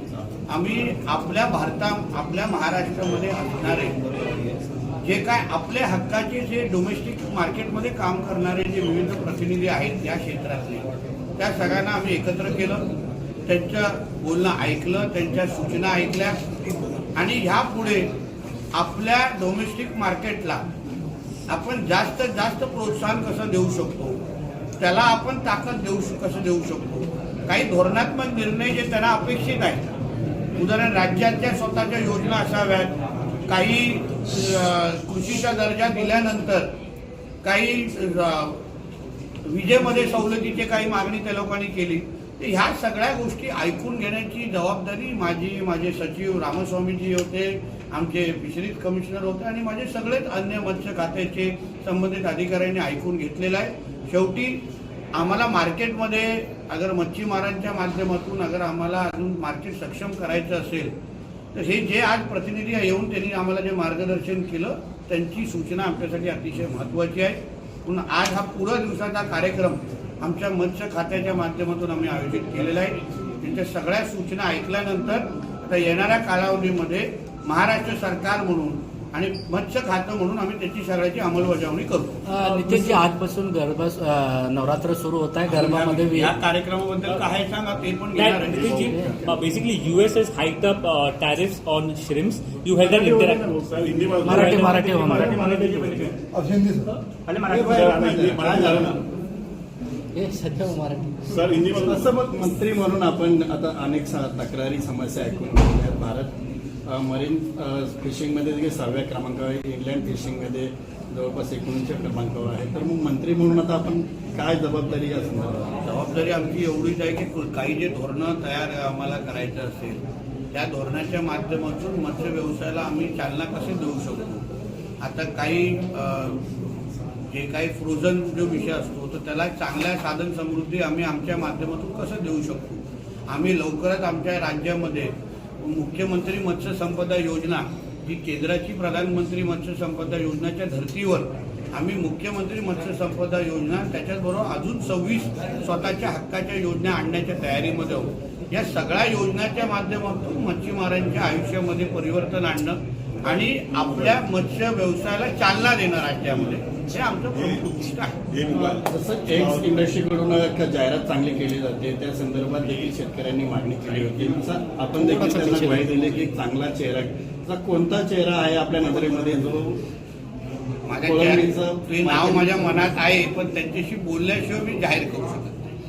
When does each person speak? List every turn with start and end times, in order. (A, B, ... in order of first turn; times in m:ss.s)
0:00.5-0:03.9 A
0:05.0-0:10.9 A
0:11.4-0:12.8 A
0:13.5-0:16.4 A
0:17.2-0:18.1 A
0:18.8-0:20.6 A
0:21.5-0:24.2 A
0:24.8-0:29.9 A
0:30.6-0:32.9 A
0:33.5-0:36.7 A
0:37.4-0:38.6 A
0:39.5-0:54.6 A
0:55.1-1:00.9 A
1:01.5-1:22.2 A
1:22.3-1:26.3 B
1:22.4-1:23.0 C
1:25.5-1:28.9 A
1:28.2-1:33.5 C
1:28.7-1:29.0 D
1:28.8-1:29.1 B
1:32.8-1:36.2 D
1:34.1-1:36.1 C
1:34.2-1:35.6 B
1:37.3-1:39.0 D
1:37.5-1:39.0 E
1:40.2-1:41.2 B
1:41.3-1:42.1 D
1:41.8-1:46.3 E
1:46.8-1:55.8 E
1:55.8-2:00.0 A
2:00.5-2:04.4 A
2:05.0-2:06.4 A
2:07.3-2:38.1 A
2:38.3-2:39.6 D
2:38.5-2:49.8 E
2:45.0-2:45.9 B
2:50.9-2:55.6 A
2:51.0-2:52.9 E